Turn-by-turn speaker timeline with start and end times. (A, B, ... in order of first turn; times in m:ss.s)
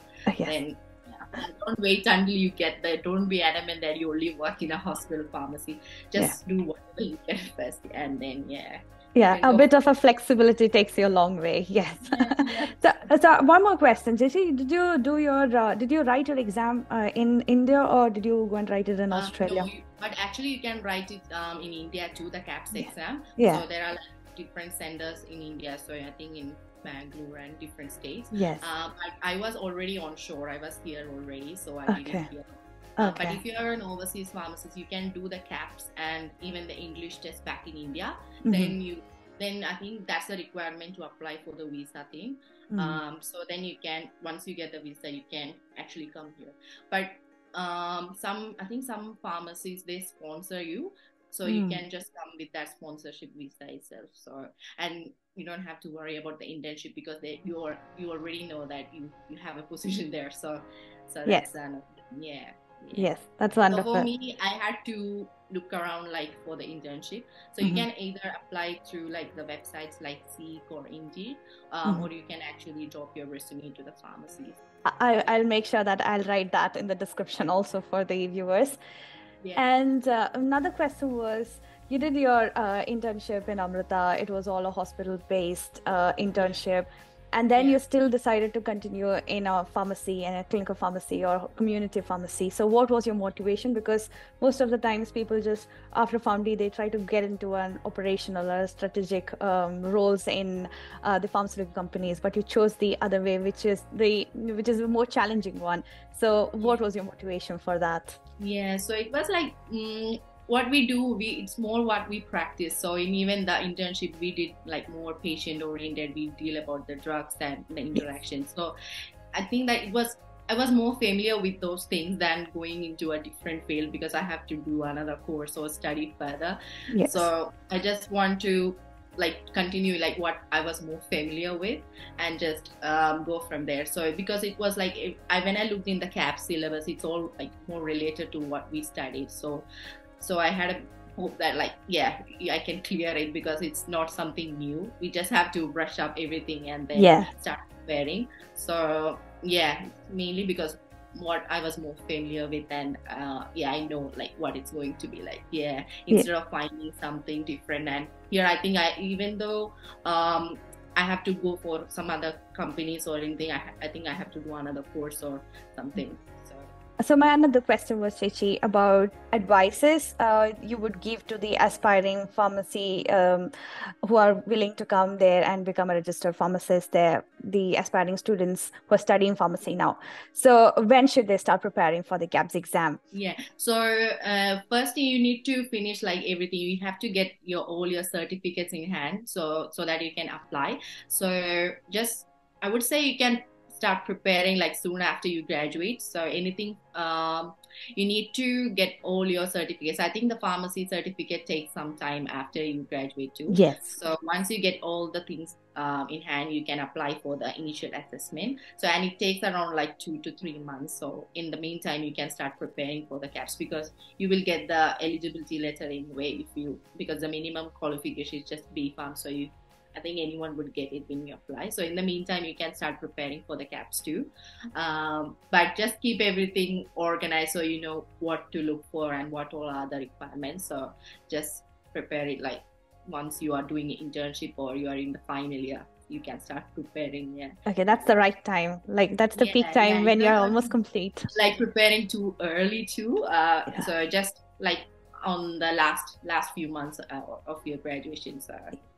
0:00.3-0:00.6 A
0:00.4-0:09.7 B
0:09.2-0:19.7 A
0:12.0-0:13.1 B
0:19.1-1:03.1 B
0:22.8-0:23.6 A
0:28.3-0:28.7 A
0:31.9-0:32.3 A
0:33.0-0:33.4 A
0:38.4-0:38.7 A
0:42.7-0:43.0 A
0:51.5-0:51.8 A
1:03.0-1:04.1 A
1:03.7-1:14.6 B
1:15.0-1:18.8 A
1:19.6-1:48.2 A
1:27.6-1:27.8 B
1:48.4-1:58.8 B
1:59.4-2:19.7 B
2:06.9-2:07.3 A
2:20.2-2:46.7 B
2:27.0-2:27.3 A
2:47.0-2:53.5 A
2:54.0-3:03.0 A
3:03.1-3:58.2 B
3:23.5-3:24.0 A
3:57.7-4:01.3 A
3:59.4-4:00.7 B
4:01.3-4:08.7 B